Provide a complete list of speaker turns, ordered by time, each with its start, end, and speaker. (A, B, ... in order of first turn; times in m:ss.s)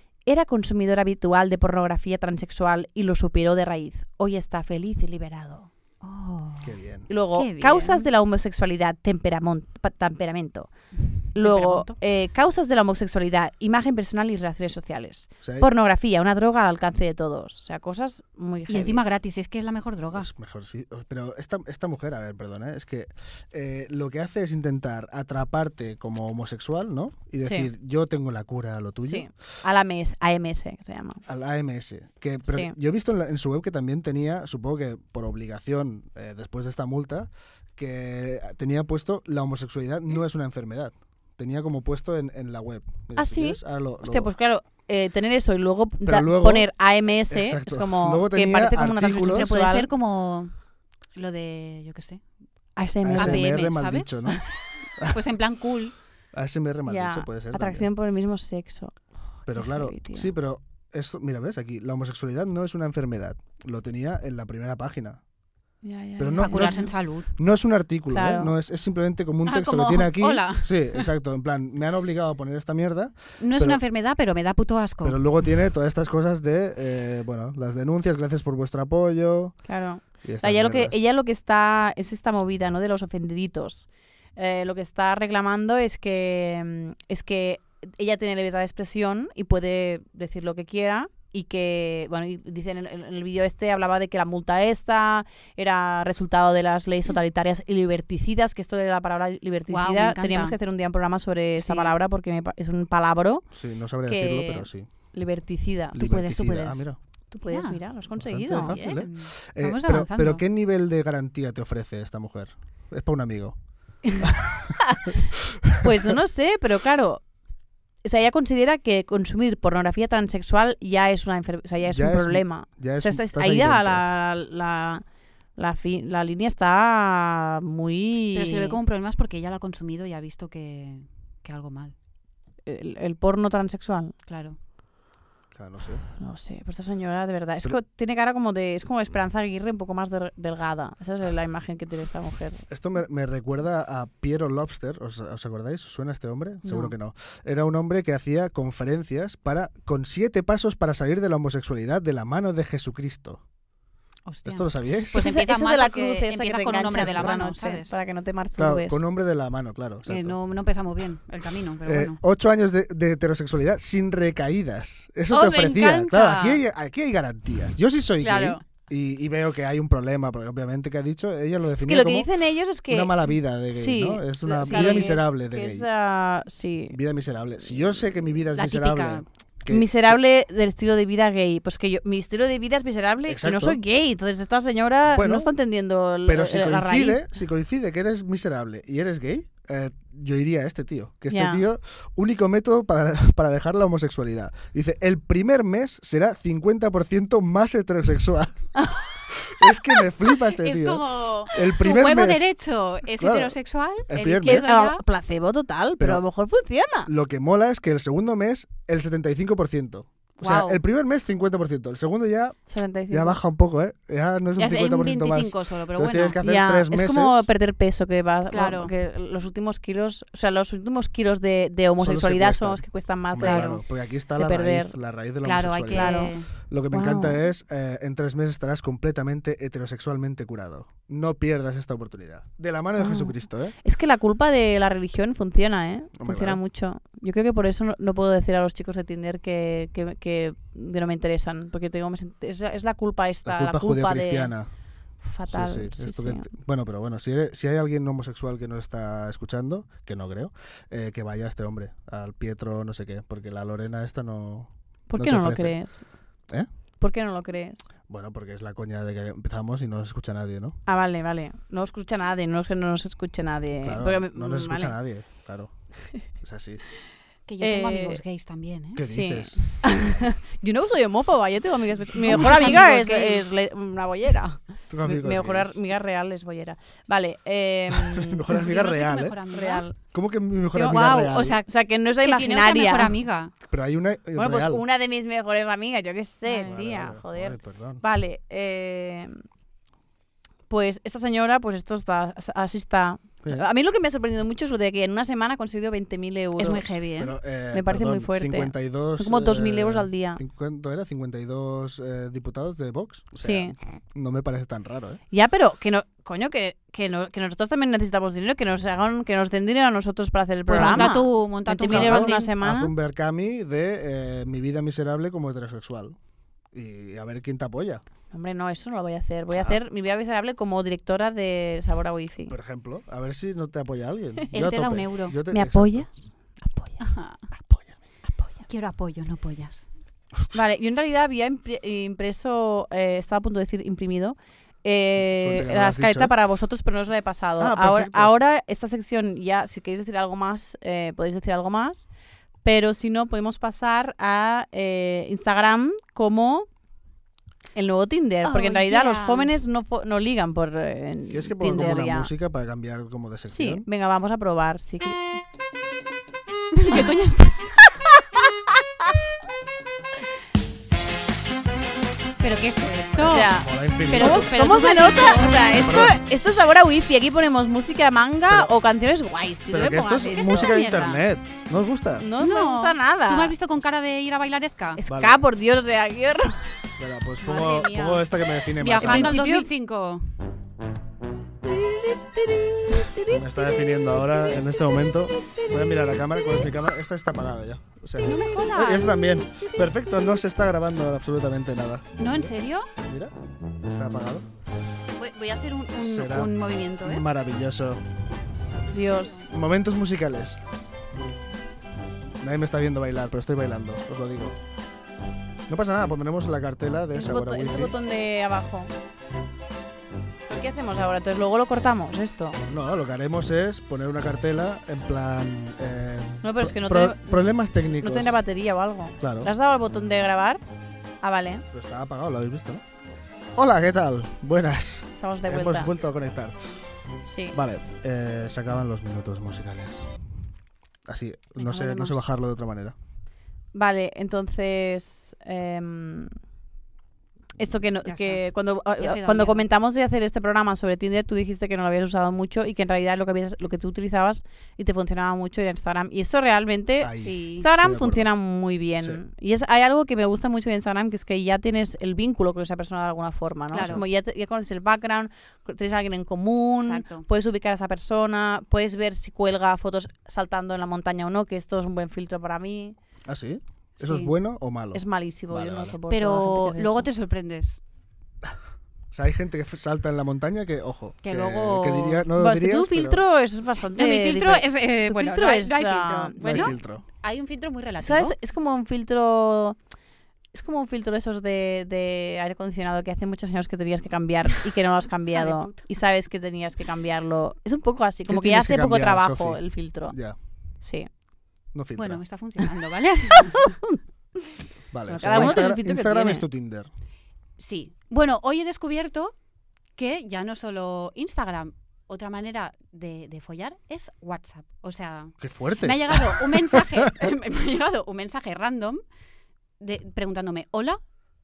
0:00.3-0:05.7 A
0:06.0-0:06.8 B
0:06.6-0:07.1 C
0:07.1-0:10.7 A
0:07.3-0:08.1 B
0:11.3-0:19.1 A
0:11.4-0:12.0 B
0:15.4-0:15.7 C
0:18.7-0:20.3 B
0:20.1-0:29.3 C
0:27.4-0:27.7 A
0:29.0-0:31.2 A
0:31.3-0:44.3 C
0:32.5-0:32.7 A
0:43.2-0:49.9 A
0:46.0-0:49.5 C
0:49.2-0:50.6 B
0:51.2-0:52.2 B
0:52.8-0:53.5 A
0:53.0-0:54.4 C
0:53.2-0:55.9 B
0:56.3-0:57.9 C
0:56.9-1:00.3 A
0:59.5-1:05.2 C
1:05.8-1:06.9 A
1:06.2-1:13.8 C
1:06.4-1:07.3 B
1:08.1-1:08.5 A
1:09.4-1:11.1 B
1:13.4-1:15.4 B
1:15.0-1:21.0 C
1:19.7-1:43.4 A
1:39.7-1:40.6 B
1:41.6-1:42.0 B
1:43.5-1:44.9 C
1:44.0-1:46.1 A
1:45.9-1:47.0 C
1:46.0-1:46.9 B
1:47.3-1:48.8 A
1:47.5-1:47.8 B
1:48.2-1:53.6 C
1:48.6-1:50.4 B
1:54.0-1:55.2 A
1:54.2-1:56.1 C
1:55.8-1:57.2 A
1:58.0-2:05.0 A
2:01.8-2:04.0 C
2:05.6-2:08.8 A
2:08.3-2:11.9 B
2:12.7-2:14.1 A
2:14.3-2:14.6 B
2:15.5-2:16.0 C
2:16.2-2:22.6 A
2:22.7-2:33.4 C
2:26.6-2:27.0 B
2:34.3-2:37.9 B
2:34.4-2:35.2 C
2:35.1-2:39.0 A
2:38.6-2:40.4 C
2:40.1-2:42.2 B
2:41.8-2:52.3 C
2:45.3-2:46.6 B
2:48.2-2:48.6 B
2:51.8-2:57.0 A
2:52.9-2:55.9 C
2:54.6-2:55.1 B
2:56.9-3:00.2 C
2:58.6-2:59.3 B
2:59.7-3:07.3 A
3:03.3-3:03.8 C
3:05.1-3:05.5 C
3:06.2-3:18.7 C
3:11.3-3:11.6 A
3:18.8-3:19.1 A
3:19.3-3:22.5 C
3:20.6-3:25.0 B
3:23.2-3:23.6 C
3:24.1-3:24.7 C
3:24.4-3:27.1 A
3:26.0-3:26.2 C
3:27.1-3:32.6 C
3:30.4-3:30.8 B
3:32.7-3:33.4 A
3:33.1-3:37.5 C
3:34.6-3:36.4 B
3:36.4-3:43.8 A
3:38.5-3:38.9 B
3:42.0-3:53.8 C
3:43.4-3:43.8 B
3:44.4-3:44.9 A
3:45.4-3:46.5 B
3:45.9-3:46.3 A
3:46.9-3:47.4 A
3:53.0-4:04.5 A
3:56.2-3:56.6 C
4:03.4-4:04.7 C
4:05.2-4:06.5 A
4:05.5-4:15.8 C
4:15.1-4:16.0 A
4:17.0-4:17.8 A
4:18.1-4:20.8 C
4:20.9-4:25.0 A
4:23.8-4:26.8 C
4:27.5-4:29.0 B
4:27.6-4:28.2 A
4:29.0-4:29.6 C
4:29.0-4:38.5 A
4:32.2-4:33.5 B
4:32.3-4:32.6 C
4:34.9-4:35.8 C
4:37.9-4:39.4 C
4:38.5-4:39.9 B
4:39.5-4:40.0 A
4:40.1-4:41.6 C
4:40.7-4:43.2 A
4:40.8-4:41.7 B
4:42.2-4:43.5 B
4:43.7-4:44.8 C
4:44.4-4:49.4 A
4:46.4-4:46.8 B
4:46.7-4:48.0 C
4:50.7-4:56.9 A
4:56.6-4:57.4 B
4:57.2-5:05.2 C
4:57.7-5:00.4 A
5:03.4-5:03.8 A
5:05.3-5:12.9 A
5:10.7-5:12.5 B
5:10.7-5:11.1 C
5:11.9-5:16.2 C
5:16.7-5:18.0 C
5:18.3-5:22.6 A
5:19.5-5:19.8 C
5:22.5-5:26.1 C
5:24.5-5:25.4 B
5:25.5-5:27.0 A
5:27.0-5:27.4 B
5:27.5-5:28.0 C
5:28.7-5:29.9 B
5:30.5-5:42.1 A
5:35.4-5:36.3 C
5:37.6-5:38.3 C
5:42.6-5:46.7 A
5:47.8-5:52.3 A
5:48.4-5:49.5 B
5:51.3-5:53.9 C
5:53.5-5:55.3 A
5:56.7-5:57.7 B
5:56.9-5:57.2 A
5:57.8-5:58.7 A
6:02.4-6:03.6 B
6:03.2-6:04.6 C
6:03.2-6:11.1 A
6:04.1-6:05.8 B
6:05.8-6:06.2 C
6:08.5-6:08.7 C
6:09.7-6:12.3 C
6:10.2-6:11.2 B
6:12.2-6:13.5 A
6:12.4-6:15.0 B
6:15.0-6:16.7 A
6:15.1-6:15.4 C
6:17.0-6:19.4 C
6:17.4-6:18.2 B
6:18.8-6:20.3 B
6:19.0-6:19.7 A
6:21.7-6:23.4 A
6:23.3-6:33.3 C
6:28.2-6:29.1 B
6:32.2-6:32.9 B
6:33.8-6:34.5 C
6:35.2-6:37.2 B
6:36.0-6:38.0 C
6:38.9-6:39.5 A
6:38.9-6:39.4 B
6:39.5-6:40.6 C
6:42.4-6:44.6 C
6:45.7-6:48.0 C
6:47.1-6:48.9 A
6:50.5-6:52.6 A
6:52.7-6:58.4 C
6:56.4-6:57.4 A
6:58.0-7:00.6 A
6:59.2-6:59.5 C
7:01.2-7:01.6 A
7:01.7-7:02.8 C
7:03.6-7:06.7 C
7:05.1-7:05.9 A
7:07.2-7:07.6 A
7:07.5-7:10.1 C
7:11.1-7:13.0 C
7:11.6-7:12.2 B
7:13.7-7:16.4 A
7:17.6-7:43.0 A
7:18.0-7:18.4 B
7:19.0-7:19.7 B
7:27.0-7:28.3 C
7:27.2-7:27.6 B
7:33.7-7:34.0 B
7:36.8-7:37.3 B
7:43.3-7:46.0 C
7:44.0-7:44.3 B
7:44.9-7:47.1 A
7:46.1-7:47.8 B
7:49.1-7:53.2 C
7:51.2-7:52.2 B
7:52.4-7:56.7 A
7:54.0-7:58.4 B
7:56.4-7:57.0 C
7:58.0-7:59.8 A
8:00.5-8:10.2 A
8:05.3-8:05.8 B
8:08.3-8:10.4 C
8:10.8-8:11.1 A
8:11.7-8:12.2 C
8:12.0-8:13.8 B
8:13.5-8:14.0 A
8:14.9-8:16.9 C
8:15.1-8:16.5 A
8:15.3-8:15.6 B
8:17.6-8:19.3 B
8:20.0-8:29.0 B
8:25.4-8:27.1 C
8:29.8-8:31.0 B